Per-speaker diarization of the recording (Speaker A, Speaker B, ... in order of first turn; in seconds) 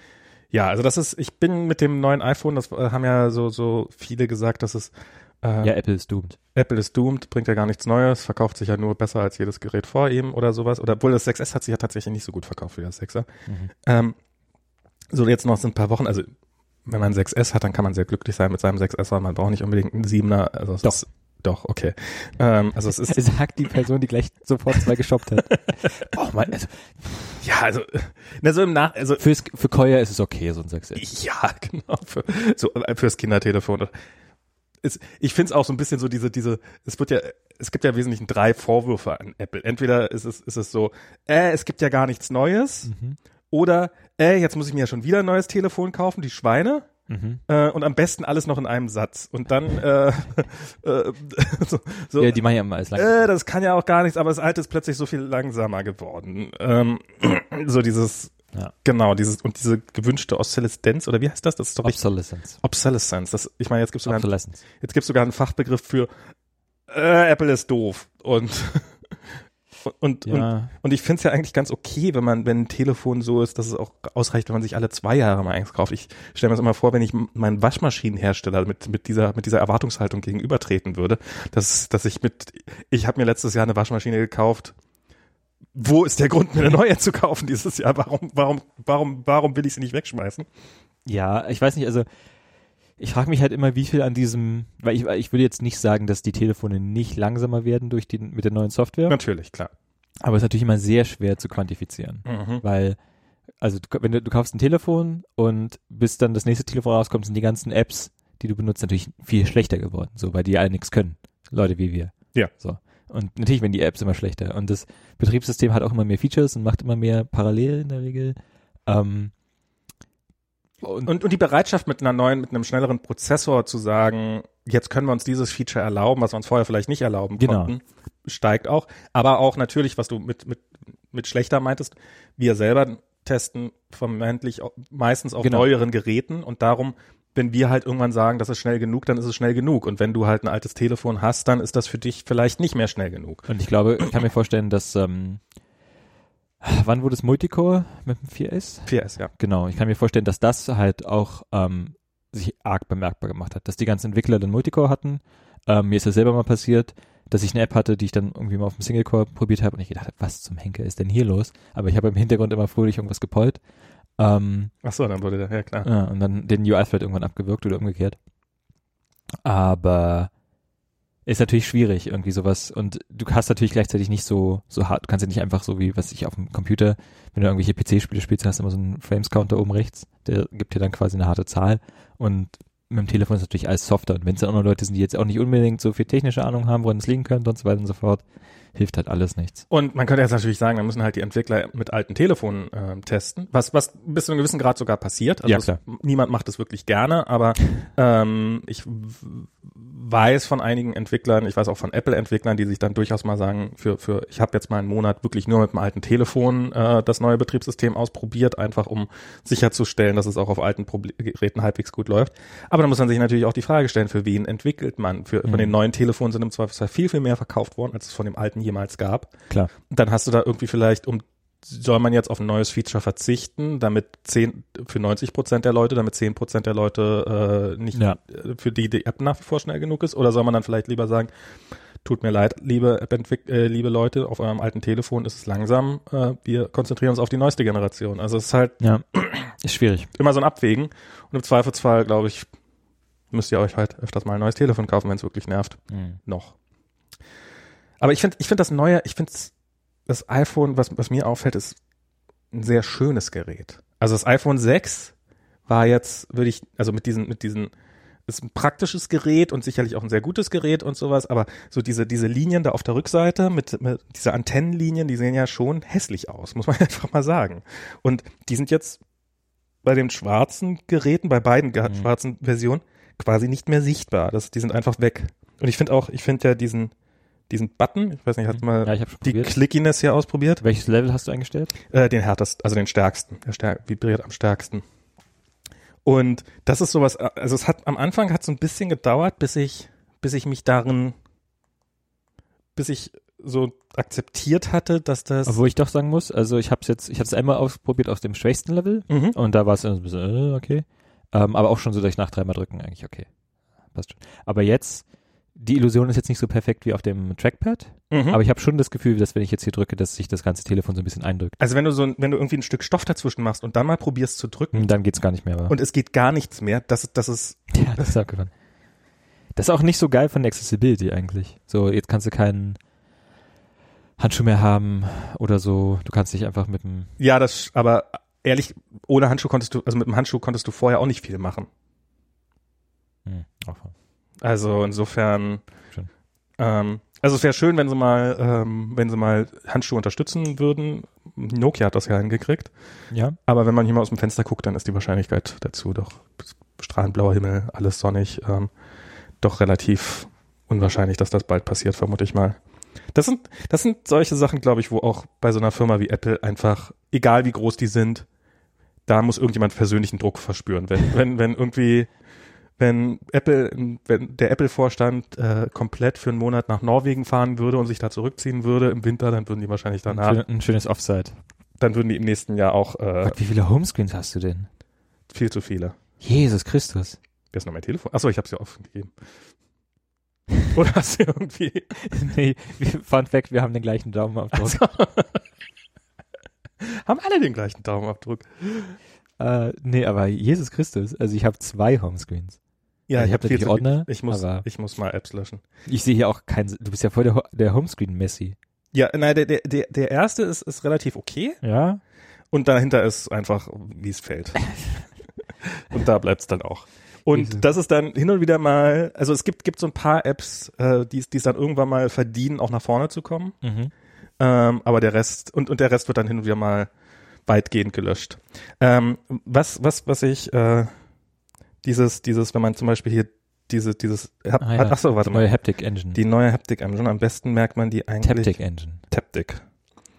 Speaker A: 0.5-5.7, 6.5-13.3, 13.8-14.2, 15.1-16.3, 16.9-23.2, 25.5-26.5, 27.4-29.2, 30.9-33.9, 34.8-42.9, 43.5-46.9, 47.5-52.4, 52.9-62.0, 62.6-64.3, 64.8-66.1, 66.9-68.9, 69.8-84.7, 85.8-90.5, 99.1-99.7, 102.2-102.6, 121.0-143.5, 148.9-149.3, 164.8-165.9, 189.7-219.3, 219.9-231.3, 232.0-238.8, 240.2-242.5, 243.3-246.5, 248.0-249.5, 250.1-251.8, 252.5-255.1, 255.7-257.7, 258.3-269.0, 269.8-276.9, 277.5-280.6, 281.9-284.8, 286.0-291.1, 292.8-295.6, 299.1-299.4, 308.1-308.4, 311.6-314.9, 315.7-318.1, 327.2-331.7, 334.4-335.6, 336.6-342.7, 343.5-348.7, 349.4-352.6, 353.1-358.2, 359.1-362.1, 362.8-370.4, 371.8-373.4, 375.3-376.0, 377.5-379.1, 380.7-381.9, 384.5-385.4, 386.8-388.9, 393.1-395.6, 398.9-401.6, 402.5-404.6, 405.8-413.6, 414.4-416.9, 417.5-420.9, 421.8-425.5, 426.1-428.6, 429.1-429.6
Speaker B: 5.6-6.4, 13.5-13.7, 23.0-27.4, 29.2-31.0, 42.9-43.2, 47.1-47.4, 52.2-53.2, 61.8-62.6, 64.0-64.6, 70.2-70.7, 91.0-92.1, 93.0-99.2, 100.2-103.0, 103.6-119.3, 120.8-121.1, 127.4-127.7, 135.4-135.7, 143.5-145.4, 146.6-163.6, 164.2-164.7, 165.8-168.2, 169.4-170.3, 171.2-188.2, 188.7-189.7, 195.4-195.8, 215.4-215.7, 227.9-228.2, 238.8-240.1, 245.9-246.2, 278.5-279.6, 280.6-281.7, 295.4-303.3, 303.9-305.0, 305.6-311.6, 314.7-315.7, 317.7-318.5, 319.5-322.8, 324.2-327.1, 333.2-333.9, 343.1-343.4, 370.1-371.3, 373.2-374.7, 376.2-377.2, 382.0-384.8, 389.4-392.6, 393.1-394.6, 395.9-398.6, 401.6-402.0, 407.3-407.6, 413.6-413.9, 424.6-426.2, 428.2-429.0